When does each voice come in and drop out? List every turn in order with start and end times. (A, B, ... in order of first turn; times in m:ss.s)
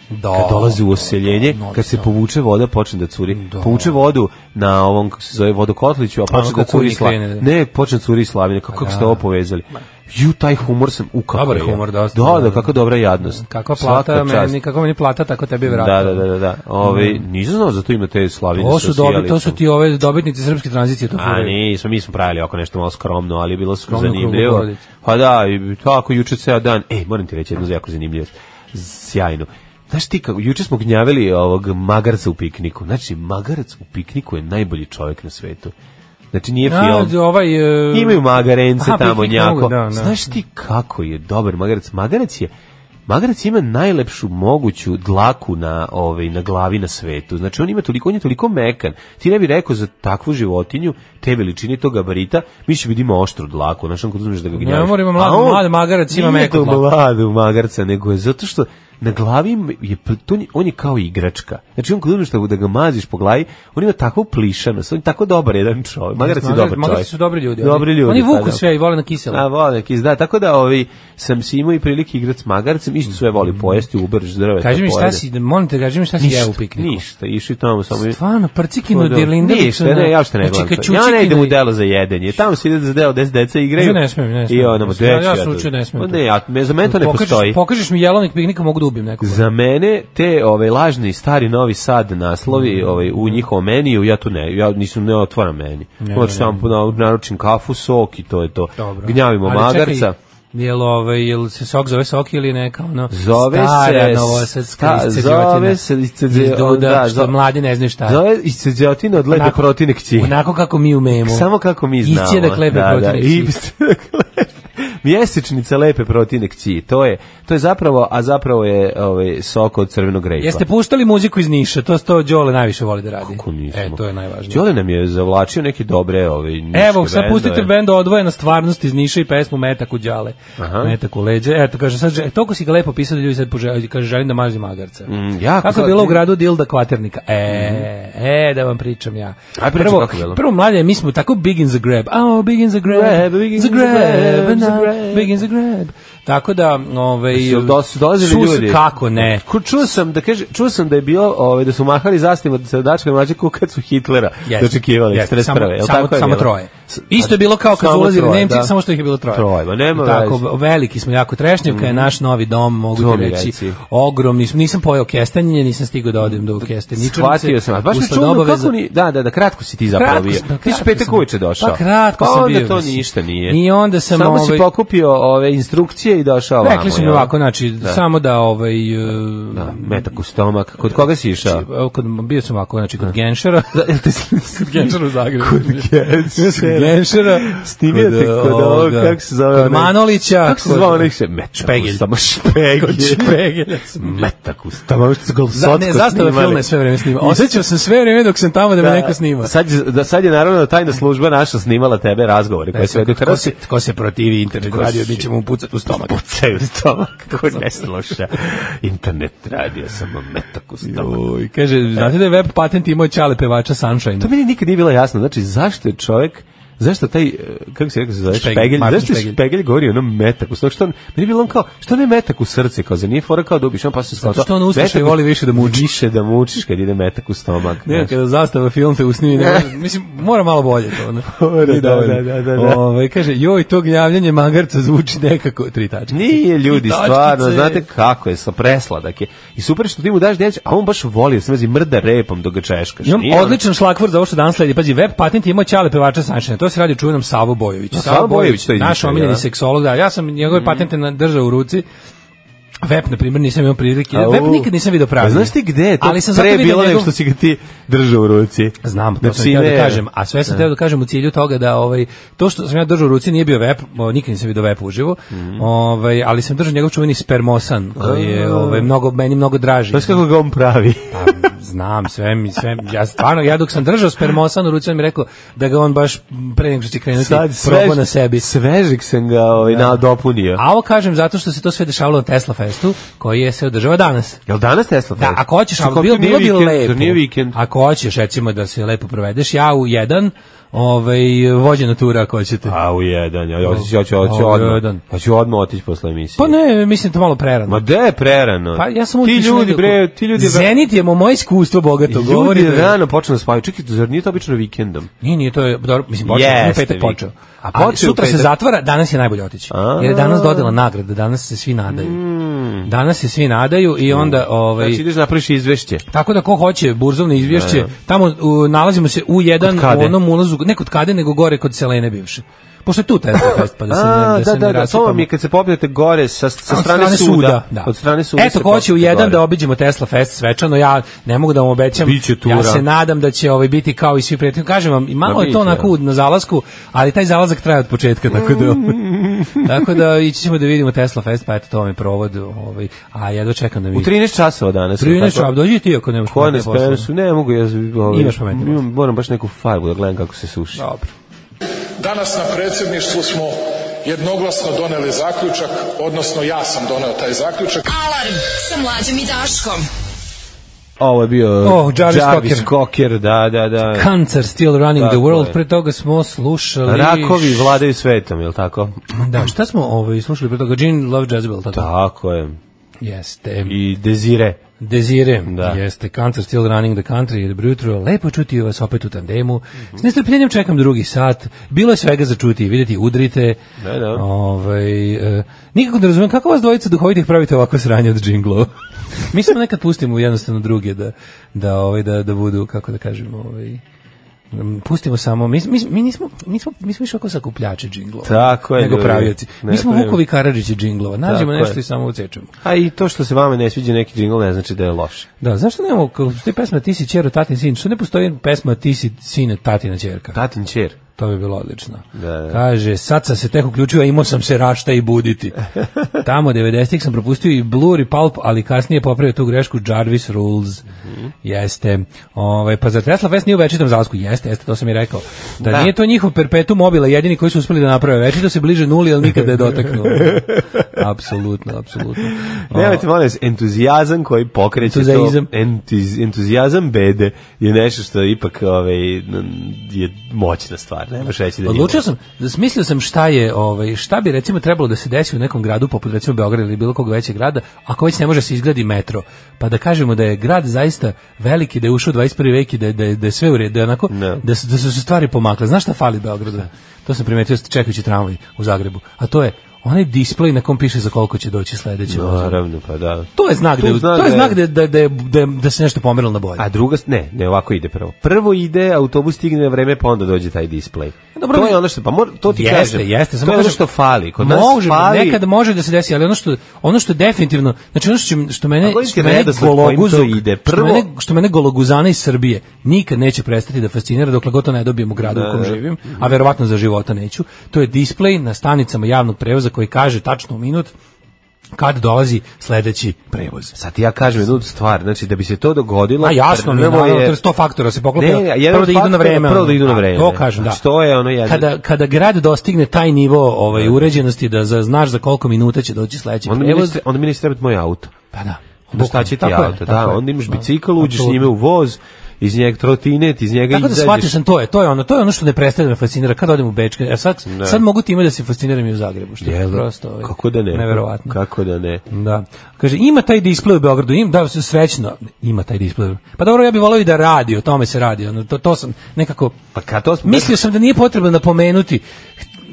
0:00.1-0:02.1 A
0:00.3-0:14.6 B
0:03.3-0:04.0 A
0:06.3-0:07.4 A
0:08.7-0:09.2 A
0:11.3-0:12.7 A
0:13.2-0:16.2 A
0:15.7-0:19.6 B
0:16.8-0:17.2 A
0:18.6-0:21.5 A
0:21.2-0:35.7 B
0:23.9-0:24.8 A
0:36.3-0:37.2 B
0:36.6-0:40.2 A
0:37.9-0:42.5 B
0:43.1-1:08.6 B
0:54.6-0:56.8 A
1:06.2-1:09.4 A
1:09.3-1:15.2 B
1:14.6-1:17.0 A
1:16.2-1:18.2 B
1:17.9-1:21.6 A
1:18.9-1:27.6 B
1:23.8-1:26.2 A
1:26.8-1:29.4 A
1:29.2-1:40.1 B
1:32.5-1:33.4 A
1:36.0-1:36.7 A
1:38.8-1:48.2 A
1:43.1-1:47.3 B
1:48.0-1:50.4 B
1:49.3-1:49.6 A
1:50.1-1:51.5 A
1:51.1-2:00.6 B
1:52.0-1:53.5 A
2:00.4-2:04.6 A
2:03.2-2:07.7 B
2:06.7-2:15.1 A
2:10.6-2:10.9 B
2:15.1-2:16.2 B
2:15.6-2:29.4 A
2:17.5-2:17.9 B
2:19.6-2:20.4 B
2:22.9-2:25.4 B
2:27.3-2:38.7 B
2:34.4-2:48.7 A
2:39.3-2:40.4 B
2:41.7-2:42.1 B
2:42.9-2:43.8 B
2:46.2-2:58.0 B
2:49.9-2:54.6 A
2:56.6-3:00.0 A
2:59.5-3:01.6 B
3:01.4-3:03.8 A
3:03.7-3:13.4 B
3:04.5-3:14.2 A
3:13.9-3:17.6 B
3:15.5-3:19.5 A
3:18.8-3:23.6 B
3:22.7-3:26.2 A
3:24.6-3:25.3 B
3:25.9-3:31.2 B
3:30.8-3:34.3 A
3:34.2-3:48.1 B
3:38.3-3:39.4 A
3:44.2-3:45.9 A
3:47.8-3:57.8 A
3:49.3-3:49.7 B
3:51.2-3:52.8 B
3:56.1-4:03.6 B
4:03.0-4:11.8 A
4:07.9-4:09.4 B
4:10.5-4:10.8 B
4:12.8-4:17.1 A
4:14.1-4:20.7 B
4:18.8-4:30.2 A
4:25.3-4:25.6 B
4:28.0-4:28.9 B
4:29.9-4:31.4 B
4:31.1-4:38.4 A
4:37.1-4:40.6 B
4:39.6-4:40.0 A
4:40.6-4:44.4 A
4:44.5-4:47.6 B
4:45.2-4:52.8 A
4:52.6-4:56.5 B
4:53.6-4:55.0 A
4:56.4-4:57.8 A
4:57.7-5:00.7 B
4:58.8-5:03.0 A
5:02.1-5:05.1 B
5:05.2-5:12.2 A
5:06.2-5:08.5 B
5:09.7-5:10.8 B
5:11.9-5:12.9 B
5:12.8-5:15.0 A
5:14.1-5:16.0 B
5:16.1-5:25.2 A
5:17.4-5:17.9 B
5:19.6-5:20.2 B
5:23.9-5:29.4 B
5:26.7-5:39.0 A
5:32.0-5:32.8 B
5:35.2-5:35.9 B
5:38.3-5:39.6 B
5:39.5-5:44.1 A
5:43.9-5:45.5 B
5:45.0-5:47.1 A
5:46.2-5:50.8 B
5:48.1-5:48.8 A
5:50.8-5:51.1 A
5:52.0-5:57.8 C
5:57.8-5:59.9 D
6:01.0-6:04.1 B
6:01.6-6:02.7 A
6:03.9-6:07.8 A
6:04.9-6:05.6 B
6:06.8-6:09.0 B
6:09.1-6:11.9 A
6:11.7-6:12.6 B
6:13.0-6:13.8 A
6:13.6-6:14.6 B
6:14.8-6:23.6 A
6:15.4-6:15.8 B
6:23.8-6:24.2 B
6:24.1-6:33.8 A
6:34.5-6:42.5 A
6:38.2-6:40.2 B
6:41.2-6:41.8 B
6:42.6-6:45.3 B
6:45.4-6:50.4 A
6:50.3-6:51.0 B
6:51.2-6:55.6 A
6:52.1-6:52.6 B
6:56.2-7:00.8 A
7:01.4-7:13.0 A
7:05.6-7:05.9 B
7:10.1-7:10.4 B
7:12.7-7:22.0 B
7:14.8-7:15.5 A
7:21.6-7:42.6 A
7:34.1-7:34.4 B
7:42.1-7:44.6 B
7:43.4-7:46.6 A
7:46.6-7:55.4 B
7:51.4-7:51.8 A
7:52.5-7:53.8 A
7:54.4-8:10.9 A
7:58.8-8:01.1 B
8:05.2-8:06.3 B
8:11.8-8:13.7 A
8:13.7-8:17.4 B
8:16.2-8:20.8 A
8:18.1-8:21.7 B
8:21.4-8:27.0 A
8:23.7-8:24.2 B
8:26.4-8:28.2 B
8:28.3-8:31.5 A
8:28.9-8:34.4 B
8:33.7-8:41.4 A
8:37.4-8:37.8 B
8:39.4-8:42.0 B
8:42.1-8:49.6 A
8:49.7-8:50.6 B
8:50.2-8:52.0 A